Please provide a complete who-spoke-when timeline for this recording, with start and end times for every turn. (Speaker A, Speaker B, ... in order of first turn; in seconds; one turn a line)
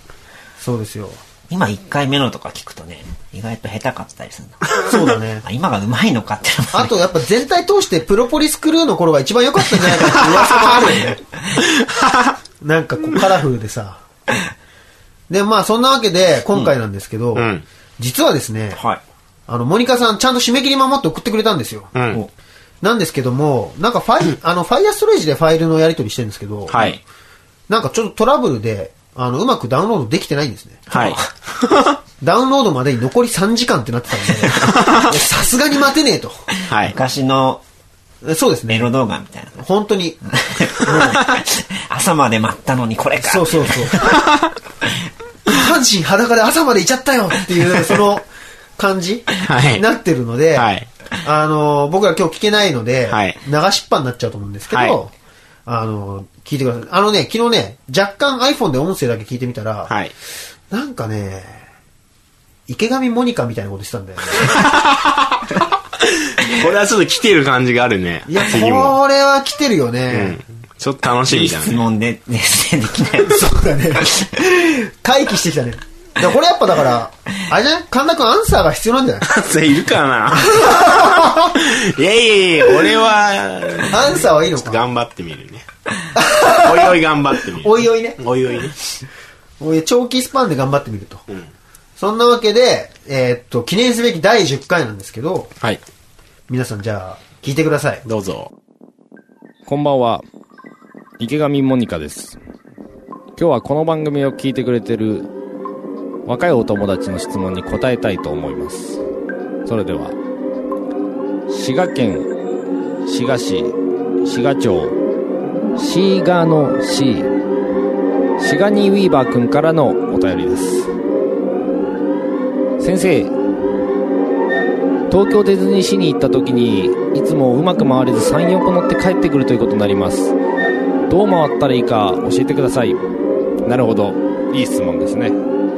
Speaker A: 0.6-1.2
Speaker B: 1.5-4.8
Speaker A: 4.8-5.4
Speaker B: 5.4-7.0
Speaker A: 6.7-11.2
Speaker C: 11.9-12.3
Speaker A: 12.6-14.0
Speaker A: 15.3-18.8
Speaker C: 17.4-17.6
Speaker B: 18.8-19.0
Speaker A: 19.5-21.9
Speaker C: 21.9-22.2
Speaker A: 22.8-26.9
Speaker C: 26.7-27.0
Speaker B: 26.7-27.0
Speaker A: 27.7-30.9
Speaker B: 30.9-31.3
Speaker C: 30.9-32.0
Speaker A: 32.2-36.5
Speaker C: 34.8-35.1
Speaker C: 36.7-37.0
Speaker B: 36.9-37.6
Speaker A: 38.2-38.9
Speaker B: 38.7-39.6
Speaker A: 39.6-41.2
Speaker B: 40.3-44.2
Speaker A: 43.2-44.0
Speaker A: 45.5-50.7
Speaker C: 49.4-49.8
Speaker C: 50.5-50.9
Speaker A: 51.2-55.1
Speaker C: 53.1-53.4
Speaker C: 54.7-55.0
Speaker A: 55.6-59.9
Speaker C: 59.9-60.1
Speaker A: 60.7-61.6
Speaker A: 62.7-64.6
Speaker C: 64.6-64.9
Speaker C: 66.2-69.0
Speaker A: 68.3-70.4
Speaker C: 70.1-71.8
Speaker B: 71.3-73.5
Speaker A: 73.3-79.3
Speaker C: 79.2-85.6
Speaker A: 80.6-81.5
Speaker A: 83.9-84.8
Speaker A: 86.1-87.0
Speaker C: 86.6-88.8
Speaker A: 87.6-88.2
Speaker A: 89.6-91.2
Speaker A: 92.0-95.5
Speaker A: 96.5-98.0
Speaker C: 98.0-98.5
Speaker D: 99.7-100.2
Speaker D: 101.2-102.4
Speaker D: 103.4-105.3
Speaker D: 106.2-109.0
Speaker D: 109.6-110.2
Speaker D: 111.5-112.3
Speaker D: 113.0-115.0
Speaker D: 115.8-117.3
Speaker D: 118.4-120.9
Speaker D: 122.8-123.3
Speaker D: 125.1-130.3
Speaker D: 131.1-133.0
Speaker D: 133.6-135.4